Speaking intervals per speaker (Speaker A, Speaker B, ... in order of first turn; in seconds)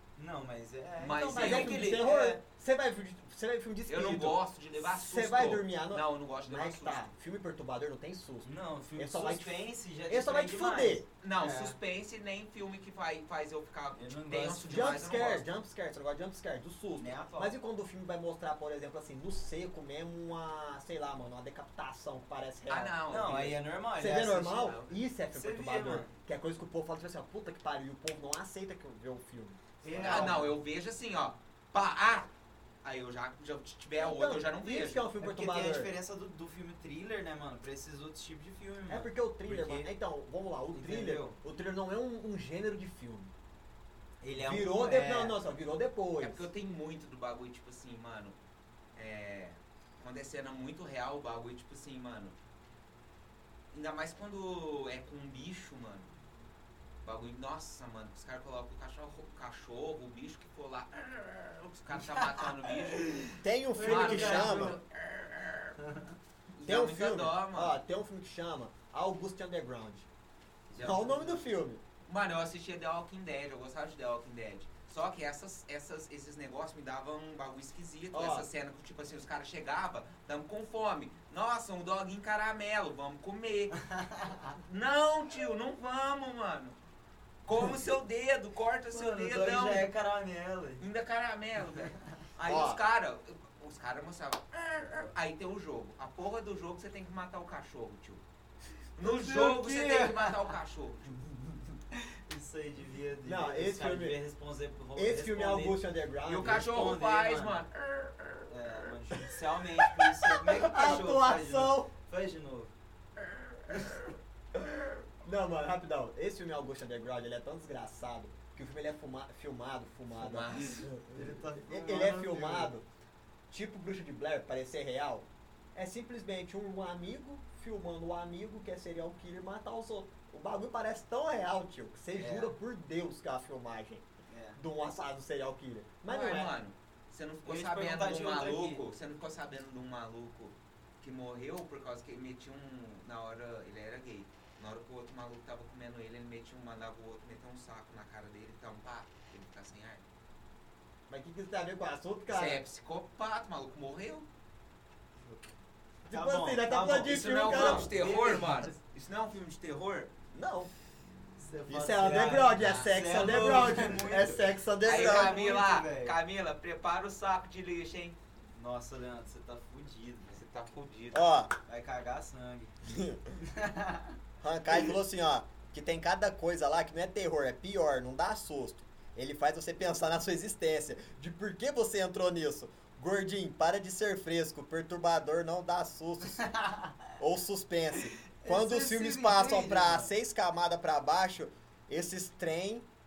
Speaker A: 0.2-2.4, 8.4-11.8, 13.9-14.9, 17.0-17.6, 23.1-24.8, 25.3-26.1, 29.8-30.6, 35.2-39.9, 40.7-41.4, 44.2-45.4, 62.0-64.8, 65.8-66.2, 70.7-71.5, 83.7-84.5, 88.9-90.8, 91.8-92.0, 99.0-100.5, 102.3-105.8, 106.4-107.6, 108.5-112.7, 113.7-114.0, 121.1-122.7, 132.1-132.5, 134.3-134.6, 137.4-138.8, 156.1-158.8, 161.4-166.2, 168.6-170.4, 171.7-172.7, 173.4-174.2, 186.4-187.1, 188.3-190.1
Speaker B: 1.0-1.9, 3.9-7.1, 11.2-15.5, 22.7-23.6, 24.5-25.0, 30.0-32.3, 32.8-35.0, 46.2-48.4, 49.0-52.4, 53.7-56.1, 57.0-65.8, 66.6-67.8, 72.1-83.8, 84.5-86.8, 87.5-89.9, 90.8-98.2, 99.0-101.7, 106.3-108.9, 120.2-120.9, 136.1-150.1, 152.3-154.3, 157.0-160.1, 162.5-162.9, 164.8-168.2, 170.3-171.3
Speaker C: 1.3-11.0, 14.7-23.0, 24.0-30.6, 34.0-35.9, 38.9-43.3, 44.3-46.5, 63.4-64.8, 66.6-70.1, 70.8-71.8, 78.1-78.5, 92.5-92.8, 103.3-104.2, 105.0-106.7, 110.0-111.9, 115.2-122.9, 123.5-134.1, 134.6-136.6, 151.1-152.6, 156.1-157.9, 160.3-160.7, 161.7-165.4, 171.1-171.5, 172.8-173.4, 174.4-186.5, 187.2-192.9